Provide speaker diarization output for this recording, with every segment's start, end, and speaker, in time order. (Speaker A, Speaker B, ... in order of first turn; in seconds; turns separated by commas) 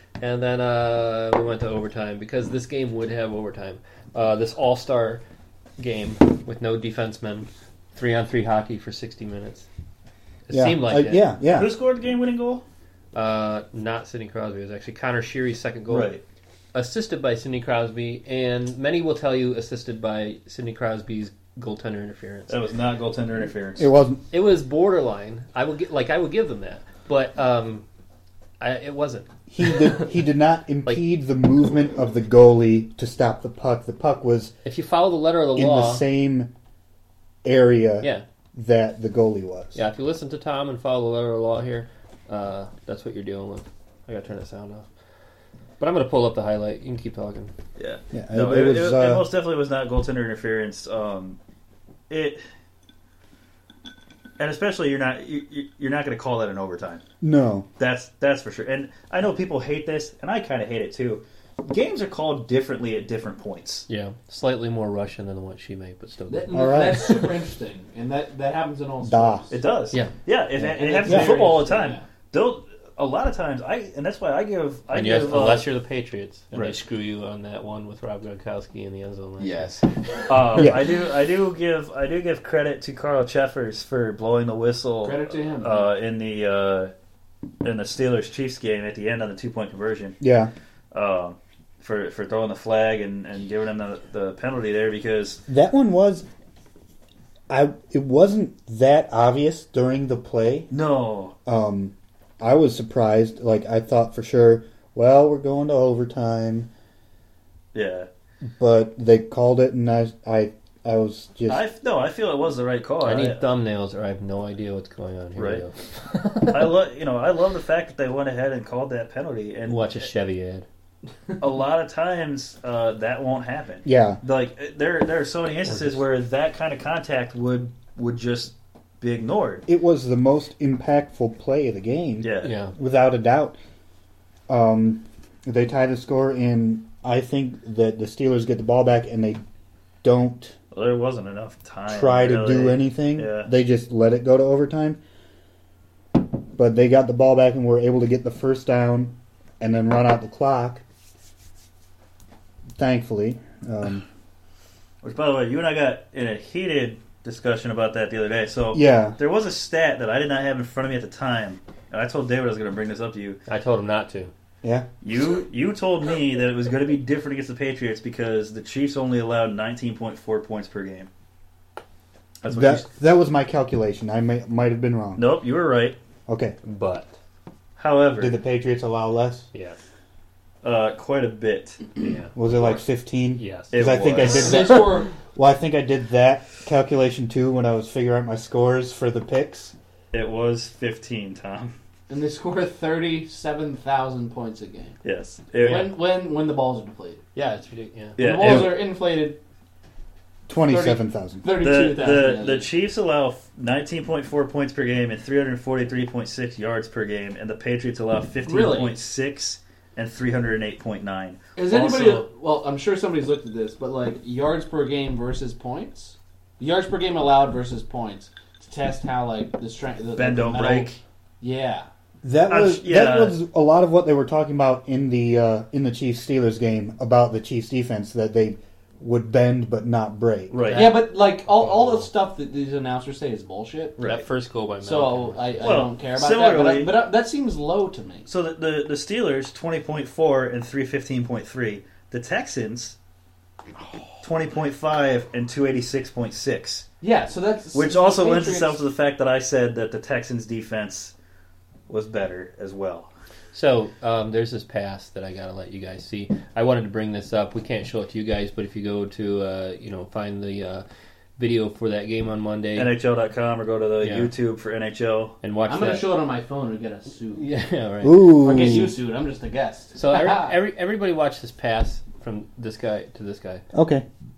Speaker A: 0.2-5.2, Speaker A: 5.8-9.7, Speaker A: 10.5-11.2, Speaker B: 10.5-11.7, Speaker C: 11.5-12.6, Speaker A: 13.1-16.1, Speaker C: 15.9-16.2, Speaker A: 16.7-22.6, Speaker C: 22.5-23.9, Speaker B: 23.8-24.2, Speaker A: 24.3-27.8, Speaker A: 28.6-30.1, Speaker B: 29.5-34.5, Speaker A: 34.6-36.1, Speaker B: 35.5-36.5, Speaker B: 37.4-39.8, Speaker A: 39.7-44.9, Speaker A: 45.8-47.5, Speaker C: 47.8-51.4, Speaker B: 48.1-49.3, Speaker C: 52.1-52.4, Speaker C: 54.4-57.0, Speaker B: 57.2-57.7, Speaker C: 57.8-63.9, Speaker A: 63.9-67.3, Speaker D: 66.3-69.6, Speaker B: 66.5-67.3, Speaker B: 69.0-69.5, Speaker C: 69.5-75.7, Speaker B: 70.6-71.4, Speaker D: 70.7-72.0, Speaker A: 74.9-80.7, Speaker C: 79.4-79.8, Speaker C: 80.3-86.9, Speaker B: 80.6-80.8, Speaker D: 85.0-85.9, Speaker C: 87.6-90.2, Speaker B: 90.2-90.5, Speaker C: 90.9-95.4, Speaker B: 95.5-96.2, Speaker B: 97.5-100.7, Speaker C: 100.7-101.3, Speaker B: 101.5-106.7, Speaker C: 107.7-108.1, Speaker B: 108.6-111.6, Speaker C: 111.5-113.4, Speaker A: 113.0-116.7, Speaker C: 115.4-115.6, Speaker C: 116.4-120.1, Speaker A: 119.7-120.7, Speaker C: 121.4-129.6, Speaker B: 123.8-124.2, Speaker A: 125.7-126.0, Speaker B: 129.7-133.6, Speaker C: 132.2-132.6, Speaker A: 132.4-132.7, Speaker B: 134.5-139.4, Speaker B: 140.0-140.5, Speaker C: 140.7-143.5, Speaker B: 141.9-145.0, Speaker B: 146.5-150.8, Speaker B: 152.8-154.1, Speaker C: 155.0-163.4, Speaker B: 158.7-159.2, Speaker A: 163.4-164.3, Speaker B: 164.6-164.9, Speaker C: 165.0-171.1, Speaker C: 172.4-172.9, Speaker B: 172.5-175.3, Speaker C: 175.2-176.0, Speaker B: 176.3-176.6, Speaker A: 176.7-177.1, Speaker C: 177.8-178.3, Speaker B: 178.2-179.5, Speaker A: 179.5-179.8, Speaker C: 180.6-181.8, Speaker A: 182.0-182.3, Speaker B: 182.3-189.7, Speaker A: 183.4-183.8, Speaker C: 183.7-184.7, Speaker D: 184.3-185.1, Speaker C: 190.1-191.7, Speaker D: 192.1-195.0, Speaker C: 195.0-195.9, Speaker D: 195.6-197.2, Speaker A: 197.3-198.2, Speaker C: 198.2-198.8, Speaker D: 198.2-199.4, Speaker B: 200.5-201.5, Speaker D: 200.7-202.7, Speaker C: 201.6-212.3, Speaker D: 208.4-209.0, Speaker D: 211.6-220.9, Speaker C: 220.2-221.0, Speaker D: 221.4-221.9, Speaker B: 222.2-230.6, Speaker C: 222.5-223.4, Speaker C: 230.5-231.1, Speaker A: 230.6-232.1, Speaker D: 230.7-234.0, Speaker C: 234.0-234.2, Speaker A: 234.0-235.8, Speaker D: 234.8-238.3, Speaker C: 235.6-237.1, Speaker C: 238.3-242.9, Speaker C: 244.2-246.8, Speaker D: 247.0-248.8, Speaker C: 247.7-251.1, Speaker C: 251.9-253.1, Speaker A: 253.5-260.8, Speaker A: 261.4-262.9, Speaker C: 262.8-265.4, Speaker A: 264.0-264.3, Speaker A: 265.4-266.1, Speaker D: 265.7-267.4, Speaker A: 267.3-268.4, Speaker B: 268.0-269.0, Speaker D: 268.2-270.6, Speaker A: 269.9-273.6, Speaker B: 273.7-274.1